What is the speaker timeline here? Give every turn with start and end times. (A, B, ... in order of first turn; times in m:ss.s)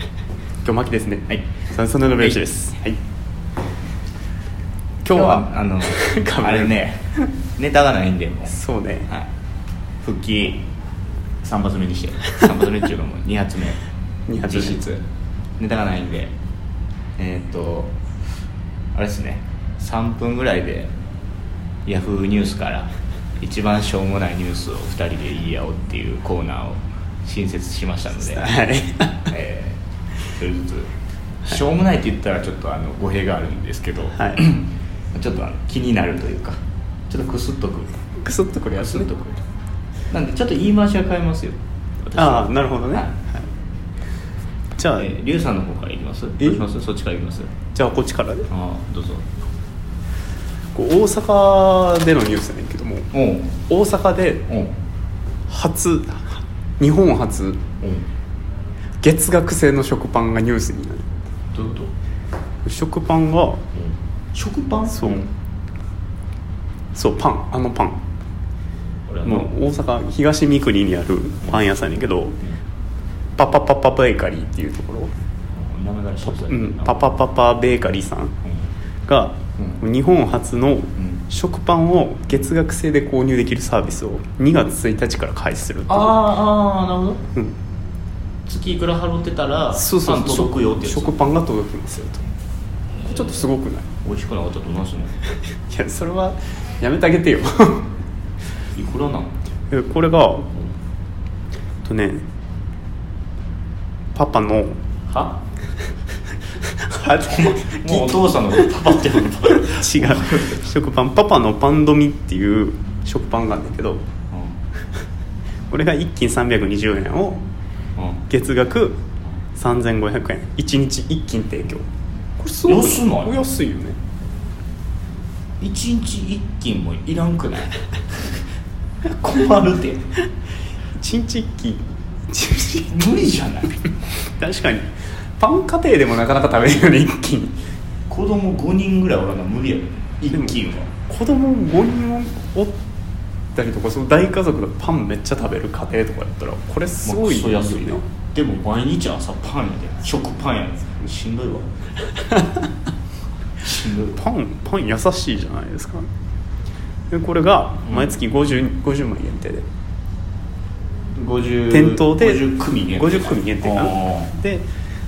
0:00.6-0:03.0 A
0:05.0-0:07.3 A
0:05.1-0:07.0 B
0:07.6-0:08.6 B
0:08.5-0:09.1 A
0:10.0-0:10.6 B
0:11.4-0:13.8 B
0:14.3-0:14.8 A
0:14.4-0:15.0 B
0:15.6-0:16.3 B
0:17.2-0:17.9 B
0:18.9-0:20.9 B
0:21.8-0:28.5 B
0:28.3-0:29.3 A
0:29.3-0:29.8 B
0:30.3-0:30.9 B
0:31.4-0:37.9 B
0:34.1-0:34.4 A
0:38.2-0:39.1 A
0:38.8-0:39.4 B
0:40.1-0:43.1 B
0:42.2-0:43.5 A
0:44.8-0:45.1 A
0:44.9-0:47.5 B
0:47.7-0:48.5 A
0:48.5-0:49.2 B
0:50.7-0:54.4 A
0:53.1-0:53.5 B
0:54.5-0:54.7 B
0:55.5-0:57.6 A
0:57.8-0:58.1 B
0:59.0-1:01.1 A
1:01.5-1:01.9 B
1:02.6-1:03.6 A
1:03.7-1:05.3 B
1:04.9-1:05.2 A
1:06.9-1:08.0 A
1:09.1-1:09.5 B
1:09.2-1:12.4 A
1:13.4-1:15.1 A
1:15.5-1:17.1 B
1:16.3-1:18.3 A
1:18.4-1:18.7 B
1:19.0-1:26.2 A
1:25.9-1:27.2 B
1:28.4-1:31.4 B
1:29.7-1:32.2 A
1:33.0-1:33.5 B
1:33.0-1:33.9 A
1:34.0-1:35.1 B
1:35.7-1:37.9 A
1:38.7-1:39.3 B
1:39.7-1:40.5 A
1:41.8-1:42.2 A
1:44.1-1:44.8 A
1:45.0-1:45.4 B
1:46.5-1:54.0 A
1:47.3-1:50.6 B
1:54.3-1:54.6 B
1:55.7-1:57.4 A
1:58.0-1:58.2 B
1:58.3-1:59.0 A
1:59.6-2:01.8 A
2:02.4-2:04.0 A
2:02.6-2:03.4 B
2:05.6-2:08.2 B
2:09.0-2:10.0 B
2:10.9-2:13.1 A
2:12.9-2:13.8 B
2:14.2-2:17.6 A
2:18.1-2:20.9 B
2:20.3-2:22.8 A
2:23.5-2:28.0 A
2:27.0-2:31.7 B
2:32.3-2:32.6 A
2:33.6-2:34.2 B
2:34.1-2:36.1 A
2:37.1-2:39.6 A
2:37.8-2:38.2 B
2:41.1-2:44.3 B
2:41.7-2:44.7 A